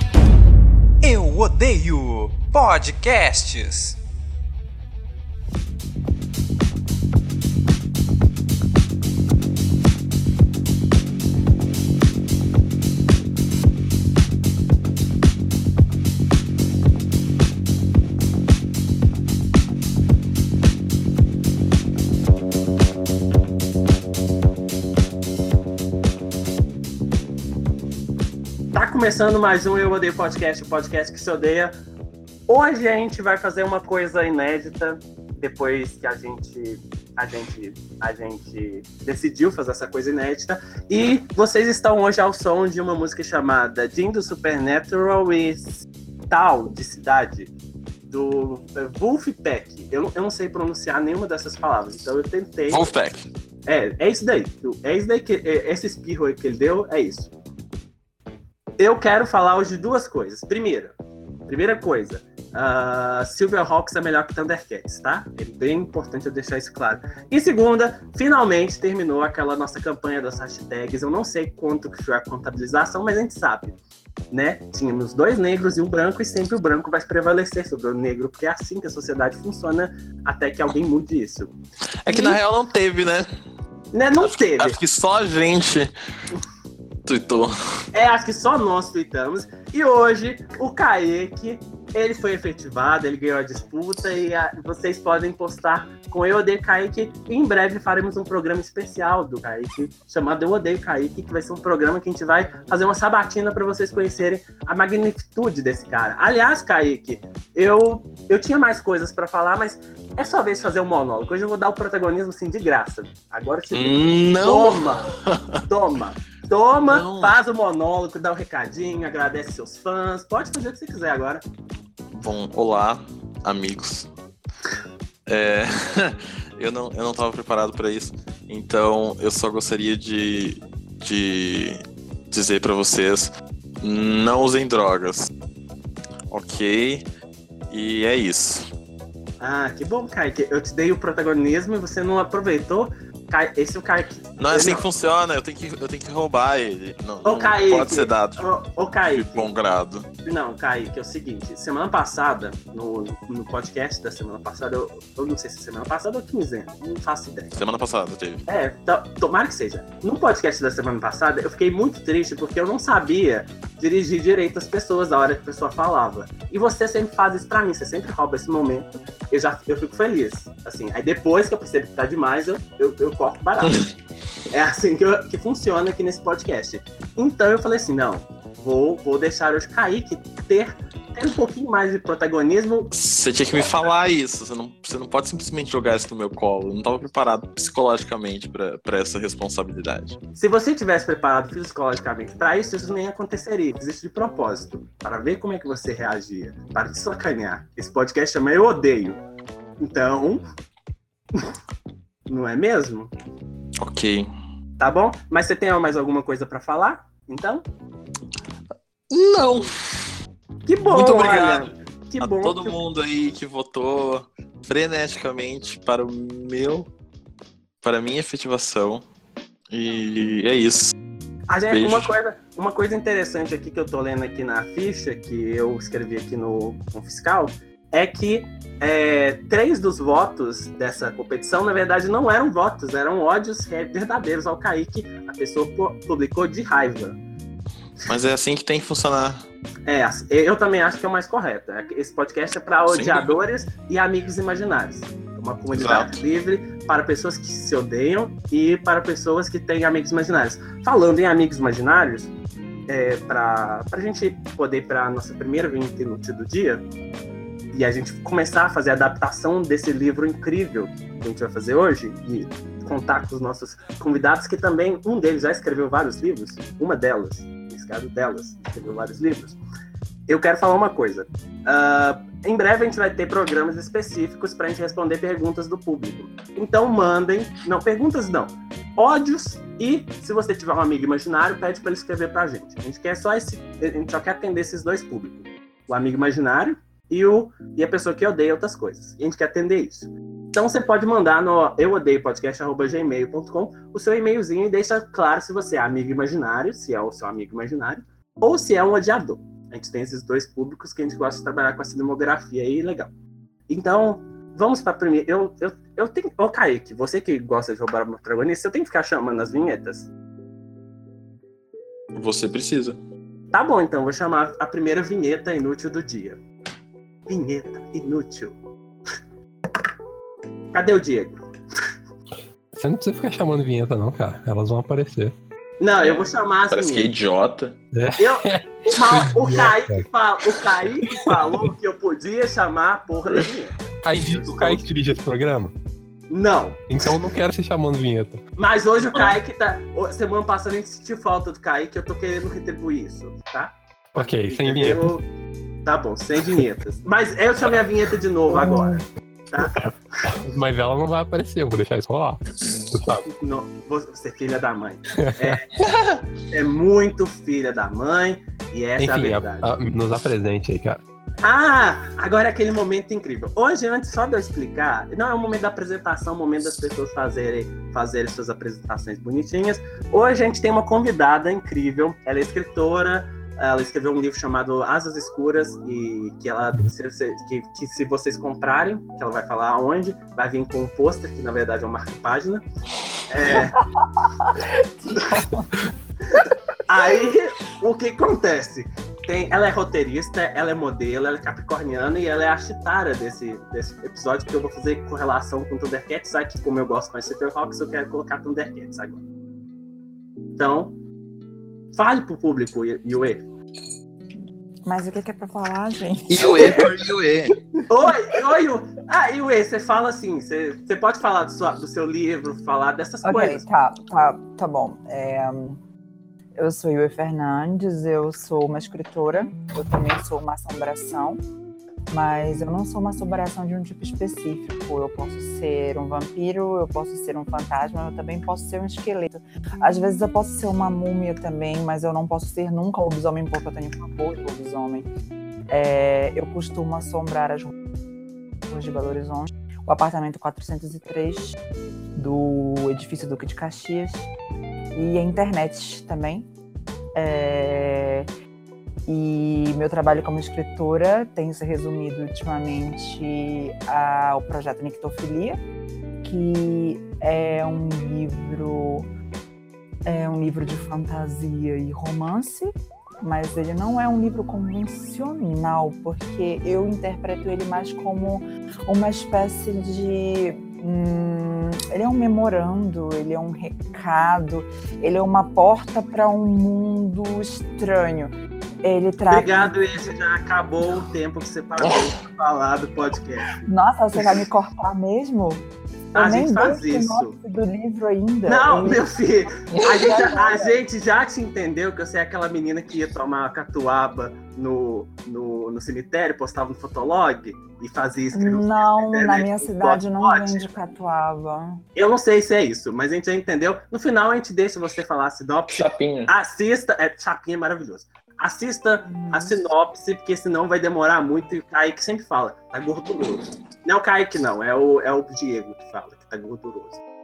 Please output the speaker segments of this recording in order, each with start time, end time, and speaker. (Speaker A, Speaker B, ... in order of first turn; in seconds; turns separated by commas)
Speaker A: 1.0-4.0, Speaker B: 28.7-31.7, Speaker B: 32.5-47.5, Speaker B: 48.1-52.9, Speaker C: 52.7-53.3, Speaker B: 53.7-57.3, Speaker B: 58.8-61.0, Speaker B: 61.5-73.8, Speaker B: 74.3-81.5, Speaker C: 82.0-83.3, Speaker B: 82.1-82.4, Speaker B: 83.9-84.8, Speaker C: 84.2-85.9, Speaker C: 87.1-87.5, Speaker B: 87.9-115.1, Speaker C: 113.7-115.6, Speaker B: 115.7-121.4, Speaker C: 116.9-117.3, Speaker C: 122.1-124.1, Speaker C: 125.3-135.3, Speaker C: 136.3-137.1, Speaker C: 137.7-138.7, Speaker B: 139.4-144.8, Speaker C: 144.4-148.5, Speaker B: 147.2-149.5, Speaker C: 149.1-150.1, Speaker B: 150.2-157.5, Speaker C: 157.5-158.4, Speaker B: 158.5-173.8, Speaker B: 174.5-182.9, Speaker C: 182.9-190.2, Speaker B: 190.3-199.2, Speaker B: 199.8-200.4, Speaker B: 202.3-203.1, Speaker C: 203.8-204.3, Speaker B: 204.8-207.7, Speaker C: 209.1-210.1, Speaker B: 210.7-212.8, Speaker C: 210.8-216.9, Speaker C: 217.8-219.0, Speaker C: 219.7-220.9, Speaker B: 221.5-237.2, Speaker C: 221.7-222.1, Speaker C: 238.1-239.4, Speaker B: 239.9-252.3, Speaker C: 242.9-243.3, Speaker C: 245.7-246.2, Speaker B: 252.9-256.9, Speaker B: 257.7-269.6, Speaker B: 270.3-303.1, Speaker B: 303.7-310.1, Speaker C: 312.1-313.0, Speaker B: 313.5-316.4, Speaker B: 317.3-318.6, Speaker B: 320.7-321.4, Speaker D: 322.7-325.3, Speaker B: 325.8-327.1, Speaker C: 326.0-327.8, Speaker D: 327.9-330.1, Speaker B: 328.2-334.9, Speaker D: 331.1-331.7, Speaker D: 334.0-335.7, Speaker B: 336.3-336.8, Speaker D: 336.9-338.4, Speaker B: 338.6-345.2, Speaker D: 344.1-345.2, Speaker B: 345.8-350.4, Speaker D: 348.5-349.0, Speaker D: 350.3-353.2, Speaker B: 353.3-355.8, Speaker D: 355.2-355.6, Speaker C: 355.9-356.2, Speaker B: 356.5-359.7, Speaker D: 359.0-361.0, Speaker B: 361.4-382.6, Speaker B: 383.2-383.8, Speaker E: 383.5-385.7, Speaker B: 385.2-385.4, Speaker B: 386.9-399.2, Speaker B: 400.6-400.9, Speaker B: 401.9-403.4, Speaker E: 404.9-406.9, Speaker C: 406.3-407.6, Speaker B: 406.4-406.9, Speaker B: 407.9-413.6, Speaker E: 413.2-415.8, Speaker E: 416.6-421.4, Speaker E: 422.1-435.1, Speaker E: 435.7-437.7, Speaker E: 438.7-441.6, Speaker E: 442.1-444.3, Speaker E: 444.9-446.5, Speaker E: 447.1-448.3, Speaker E: 449.1-455.6, Speaker E: 456.2-459.1, Speaker E: 460.1-479.8, Speaker B: 479.3-483.6, Speaker C: 481.8-482.1, Speaker E: 483.6-485.6, Speaker B: 486.1-487.4, Speaker E: 486.1-489.1, Speaker B: 488.4-500.7, Speaker E: 489.6-490.8, Speaker E: 498.3-501.8, Speaker B: 501.9-517.0, Speaker C: 505.7-506.3, Speaker E: 509.0-509.6